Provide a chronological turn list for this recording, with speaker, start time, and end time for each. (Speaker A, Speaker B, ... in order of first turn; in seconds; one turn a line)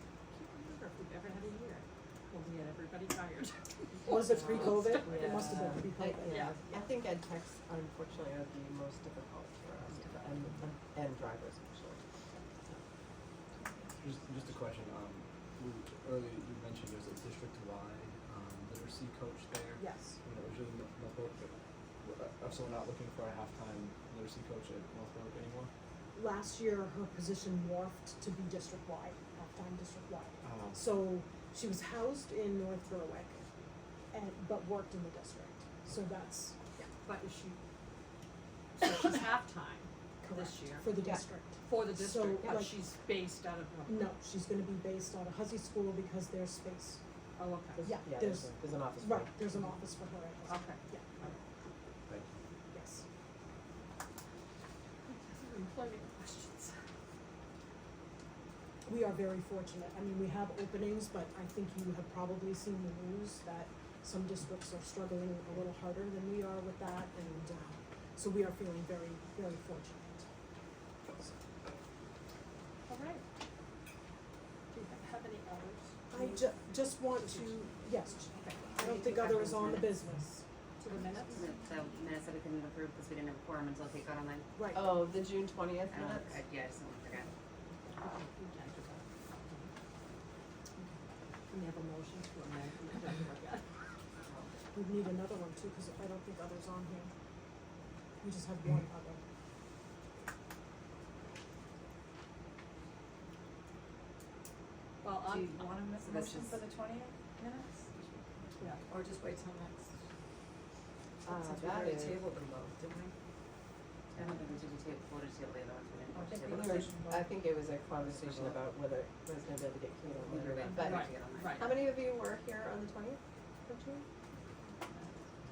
Speaker A: 0.3-4.2
Speaker B: 4.0-6.5
Speaker C: 4.7-12.0
Speaker A: 4.8-5.4
Speaker A: 6.2-6.6
Speaker D: 14.0-25.7
Speaker B: 19.8-20.2
Speaker B: 26.1-33.4
Speaker D: 30.4-30.8
Speaker B: 34.1-36.6
Speaker A: 37.0-37.6
Speaker A: 38.8-40.9
Speaker B: 40.2-42.7
Speaker A: 41.6-44.1
Speaker B: 43.9-47.0
Speaker A: 47.4-47.9
Speaker B: 47.8-51.2
Speaker C: 47.8-49.6
Speaker A: 50.4-51.3
Speaker B: 52.7-53.0
Speaker A: 55.0-56.7
Speaker B: 58.9-70.3
Speaker A: 72.9-73.2
Speaker A: 74.7-80.0
Speaker B: 76.1-80.4
Speaker A: 80.8-81.4
Speaker E: 81.3-84.5
Speaker C: 84.7-86.4
Speaker E: 85.9-87.3
Speaker A: 88.0-89.7
Speaker A: 91.5-93.7
Speaker E: 94.2-94.5
Speaker B: 94.7-97.1
Speaker B: 98.2-99.2
Speaker A: 105.0-106.4
Speaker F: 105.3-107.8
Speaker E: 105.3-105.5
Speaker A: 108.6-108.8
Speaker F: 108.9-109.8
Speaker C: 111.2-112.2
Speaker F: 111.3-113.1
Speaker E: 114.2-116.9
Speaker F: 116.1-117.0
Speaker C: 116.5-124.0
Speaker E: 120.2-121.7
Speaker A: 120.7-121.7